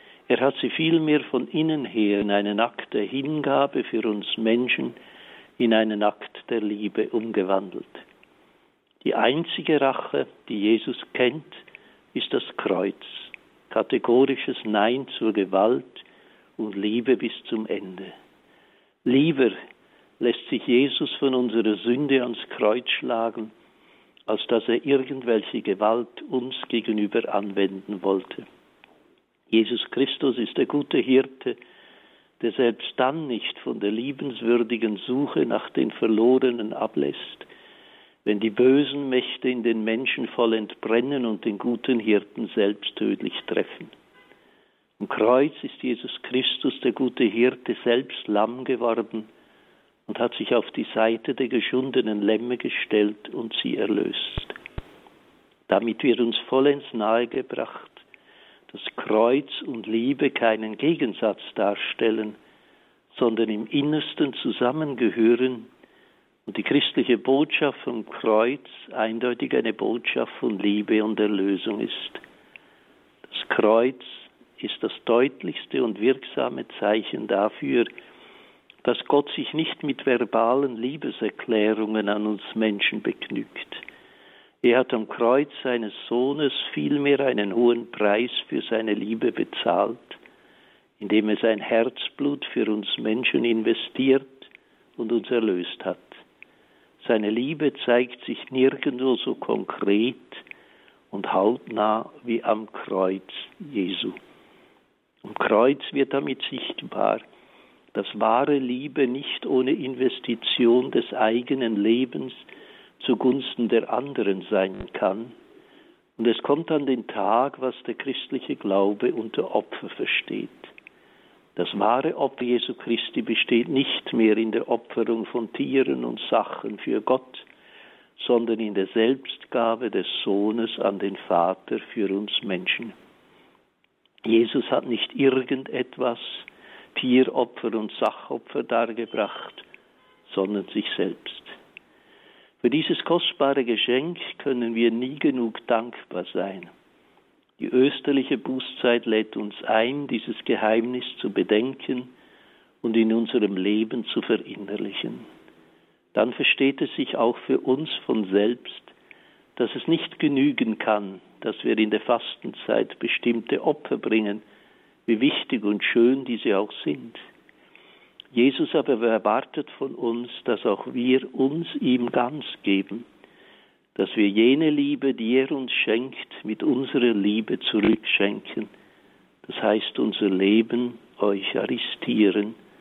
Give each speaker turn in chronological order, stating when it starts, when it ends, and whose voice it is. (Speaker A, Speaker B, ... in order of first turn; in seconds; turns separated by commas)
Speaker A: 0.3-5.0, Speaker A: 5.6-8.0, Speaker A: 9.0-16.1, Speaker A: 16.6-18.1, Speaker A: 19.1-19.6, Speaker A: 20.2-23.5, Speaker A: 24.3-28.5, Speaker A: 29.5-31.6, Speaker A: 32.4-37.5, Speaker A: 38.2-43.9, Speaker A: 45.0-49.3, Speaker A: 50.1-54.5, Speaker A: 55.7-58.0, Speaker A: 58.7-62.4, Speaker A: 63.1-65.7, Speaker A: 66.5-72.2, Speaker A: 73.3-77.9, Speaker A: 78.8-83.8, Speaker A: 84.6-90.2, Speaker A: 91.0-96.2, Speaker A: 97.0-100.4, Speaker A: 101.1-104.2, Speaker A: 105.2-107.2, Speaker A: 107.9-112.5, Speaker A: 113.0-115.3, Speaker A: 116.2-120.7, Speaker A: 121.6-127.5, Speaker A: 128.2-132.9, Speaker A: 134.2-139.7, Speaker A: 140.3-141.6, Speaker A: 142.6-146.7, Speaker A: 147.6-152.1, Speaker A: 152.8-155.2, Speaker A: 156.1-158.9, Speaker A: 159.6-164.4, Speaker A: 165.1-167.2, Speaker A: 168.3-173.1, Speaker A: 173.9-178.7, Speaker A: 179.4-182.6